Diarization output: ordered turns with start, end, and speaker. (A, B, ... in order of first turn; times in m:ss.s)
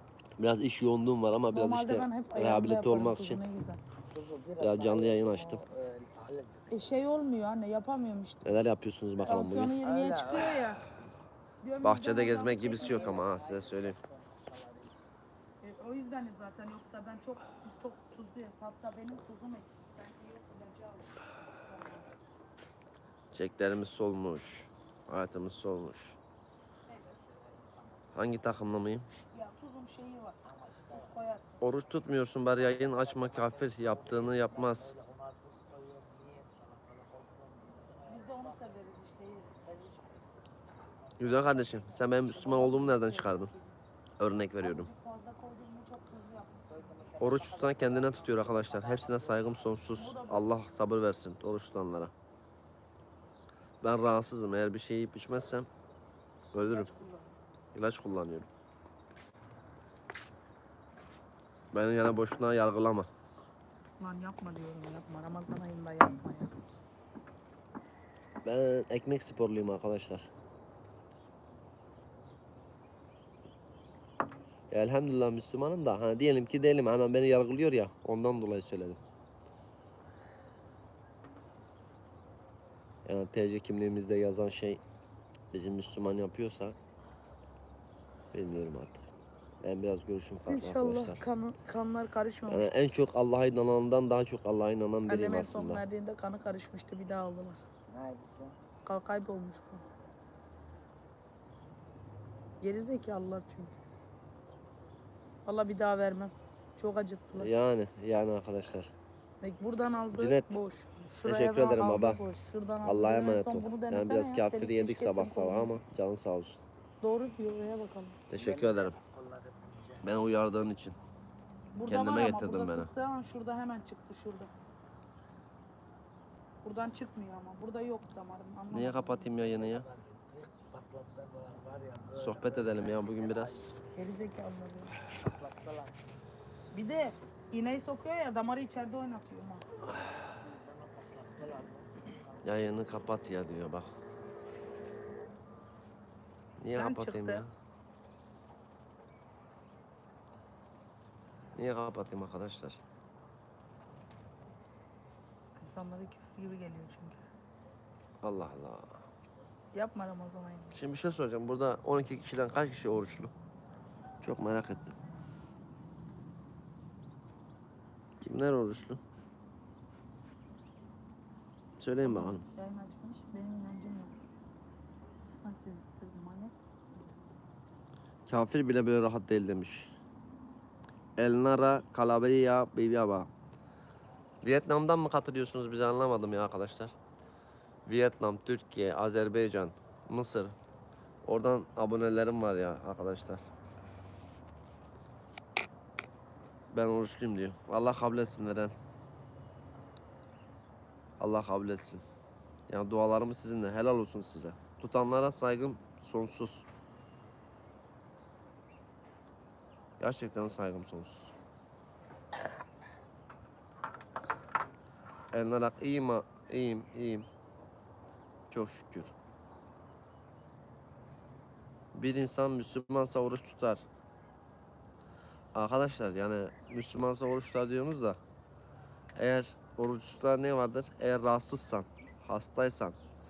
0:00.4-0:03.4 A
0:01.5-0:03.8 B
0:04.1-0:06.9 C
0:04.6-0:05.6 A
0:06.7-0:08.4 B
0:08.4-0:09.8 A
0:09.2-0:10.9 B
0:09.8-0:11.0 C
0:11.6-0:13.2 B
0:11.8-0:14.0 A
0:12.7-0:15.0 C
0:15.6-0:22.1 B
0:23.3-0:26.2 A
0:26.9-0:28.7 C
0:28.1-0:29.1 A
0:29.3-0:30.4 B
0:30.4-0:31.2 C
0:30.9-0:31.6 B
0:31.6-0:34.9 A
0:32.5-0:38.8 C
0:38.1-0:39.6 B
0:39.5-0:42.2 C
0:41.2-0:43.5 A
0:42.2-0:43.8 B
0:44.2-0:44.9 A
0:44.6-0:47.2 B
0:46.7-0:49.8 C
0:47.2-0:52.1 A
0:49.9-0:50.5 B
0:53.8-0:55.7 A
0:56.5-0:56.9 A
0:56.7-0:57.3 B
0:57.7-0:58.5 A
1:01.7-1:03.1 A
1:04.0-1:06.5 B
1:08.4-1:10.3 A
1:14.7-1:19.0 A
1:23.0-1:24.8 A
1:25.5-1:26.8 A
1:28.3-1:29.1 A
1:29.6-1:31.2 A
1:30.5-1:32.7 B
1:32.5-1:35.8 A
1:35.1-1:37.6 B
1:37.9-1:38.6 C
1:38.8-1:39.8 B
1:42.6-1:43.8 B
1:45.5-1:47.5 B
1:47.4-1:48.9 A
1:49.4-1:55.8 B
1:50.2-1:50.6 A
1:51.2-1:52.2 A
1:52.8-1:56.6 A
1:57.0-1:58.2 B
1:58.3-1:59.0 A
1:58.3-2:00.2 C
2:00.0-2:01.0 A
2:01.7-2:04.5 B
2:01.8-2:02.9 A
2:06.6-2:09.3 B
2:08.7-2:09.9 A
2:09.4-2:13.8 C
2:12.2-2:13.6 A
2:14.0-2:15.0 B
2:15.1-2:16.0 C
2:16.7-2:19.7 B
2:19.9-2:23.2 C
2:22.4-2:23.9 A
2:26.6-2:27.5 A
2:26.7-2:27.4 B
2:31.6-2:32.8 A
2:35.6-2:37.2 B
2:38.2-2:39.0 A
2:39.7-2:40.8 B
2:40.7-2:43.3 A
2:44.2-2:44.9 A
2:48.2-2:49.0 A
2:51.8-2:52.4 A
2:52.0-2:54.1 B
2:55.4-2:56.6 B
2:58.3-2:59.9 A
3:01.2-3:03.3 A
3:04.4-3:06.9 A
3:07.9-3:10.6 A
3:11.2-3:13.4 A
3:16.7-3:18.8 A
3:21.2-3:22.0 A
3:22.7-3:26.6 A
3:30.0-3:31.3 A
3:35.3-3:37.3 A
3:38.5-3:39.1 A
3:41.9-3:43.8 A
3:45.5-3:48.2 A
3:49.2-3:53.0 A